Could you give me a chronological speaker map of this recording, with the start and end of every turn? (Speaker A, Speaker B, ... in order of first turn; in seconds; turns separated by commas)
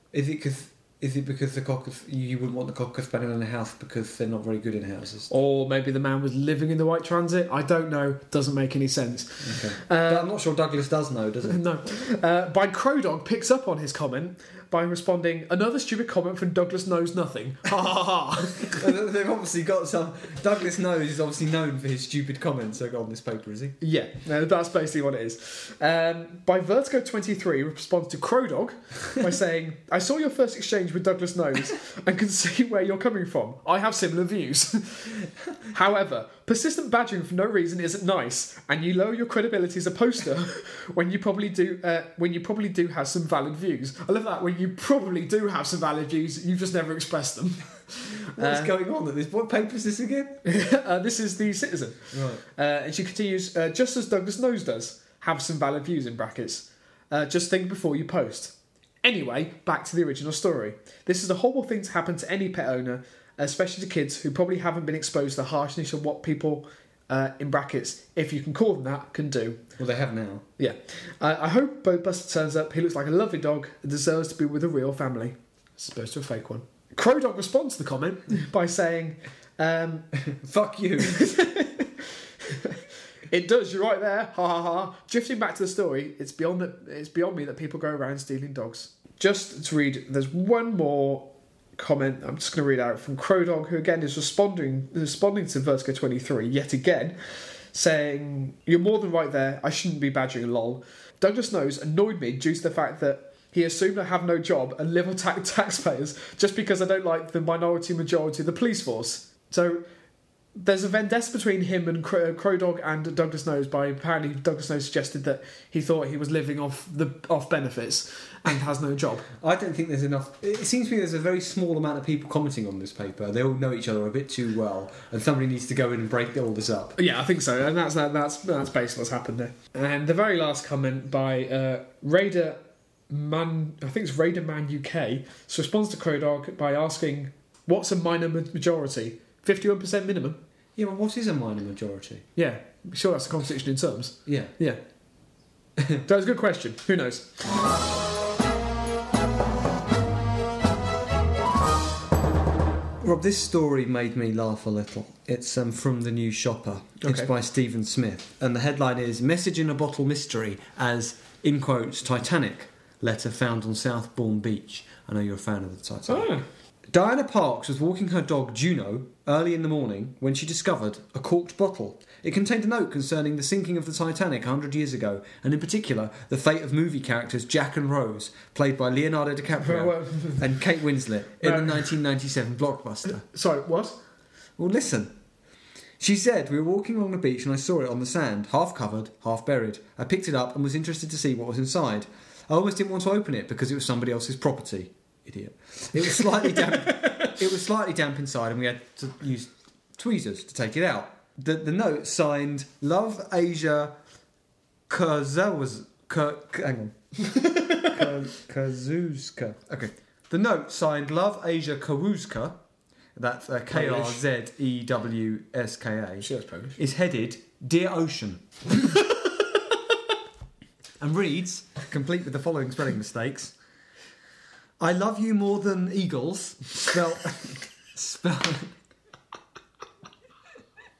Speaker A: 0.1-5.3, Speaker B: 5.3-10.3, Speaker A: 9.4-11.6, Speaker B: 11.4-18.8, Speaker A: 18.6-23.8, Speaker B: 23.8-48.7, Speaker A: 48.4-50.4, Speaker B: 50.4-69.6, Speaker A: 52.1-52.4, Speaker A: 69.8-70.4, Speaker B: 70.6-80.1, Speaker A: 80.2-81.3, Speaker B: 81.0-97.1, Speaker B: 97.7-109.8, Speaker B: 110.6-119.3, Speaker A: 119.4-127.0, Speaker B: 127.0-140.4, Speaker A: 140.8-142.2, Speaker B: 142.3-144.8, Speaker A: 144.2-144.5, Speaker B: 146.0-147.4, Speaker A: 153.0-166.3, Speaker B: 157.0-157.3, Speaker B: 166.1-166.4, Speaker A: 166.9-183.2, Speaker B: 179.6-180.6, Speaker B: 181.4-181.9, Speaker B: 183.2-184.0, Speaker A: 184.6-185.1, Speaker A: 186.0-203.9, Speaker B: 196.5-197.3, Speaker A: 204.9-206.9, Speaker B: 207.3-207.9, Speaker A: 207.8-212.6, Speaker A: 213.1-218.9, Speaker B: 213.7-214.2, Speaker B: 216.2-216.8, Speaker A: 221.0-223.5, Speaker A: 224.8-228.7